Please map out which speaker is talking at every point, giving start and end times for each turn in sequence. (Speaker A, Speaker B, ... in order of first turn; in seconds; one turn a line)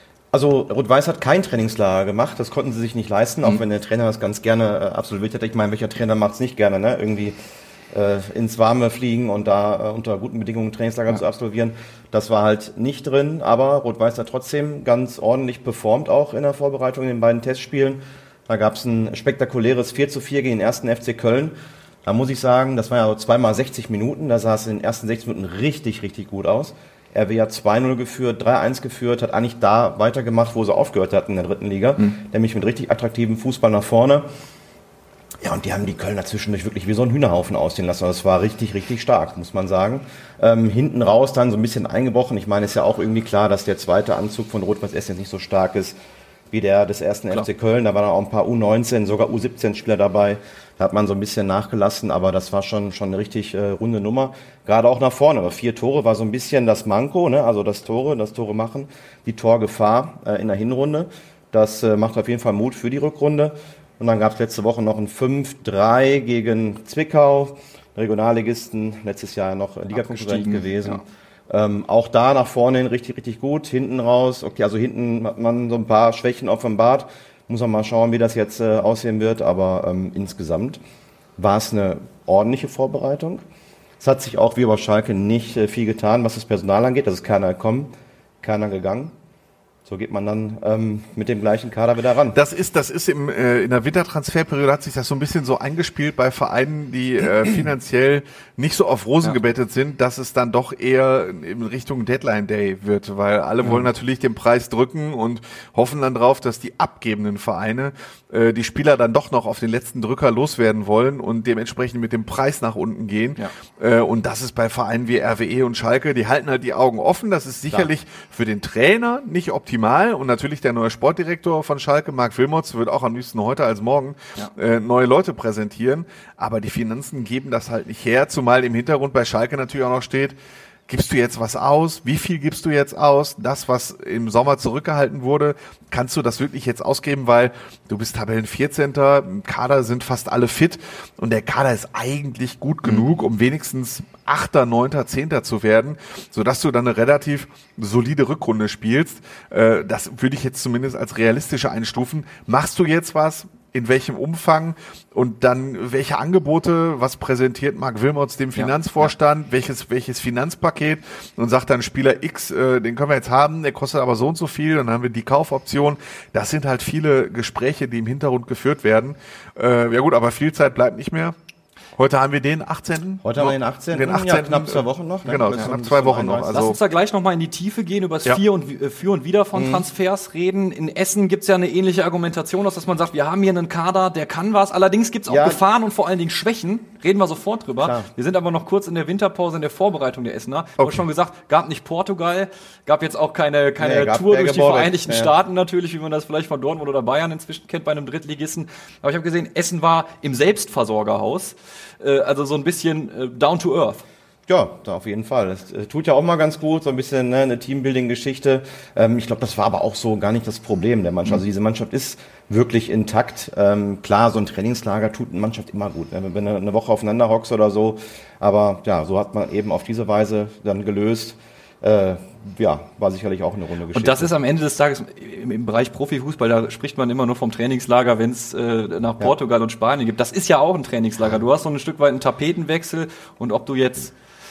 Speaker A: 0.3-7.4
Speaker A: 7.9-21.5
Speaker A: 22.1-34.3
Speaker A: 35.4-46.0
Speaker A: 46.5-80.8
Speaker B: 69.9-71.0
Speaker A: 81.4-83.4
Speaker A: 84.0-87.9
Speaker A: 88.4-89.1
Speaker A: 89.9-92.4
Speaker C: 92.3-130.4
Speaker C: 130.9-171.4
Speaker B: 158.6-159.1
Speaker C: 172.0-176.8
Speaker A: 173.2-176.7
Speaker B: 176.5-204.0
Speaker A: 179.6-179.8
Speaker A: 185.3-185.6
Speaker A: 187.8-188.1
Speaker C: 190.8-191.1
Speaker A: 193.8-195.3
Speaker A: 204.5-224.3
Speaker B: 223.9-234.1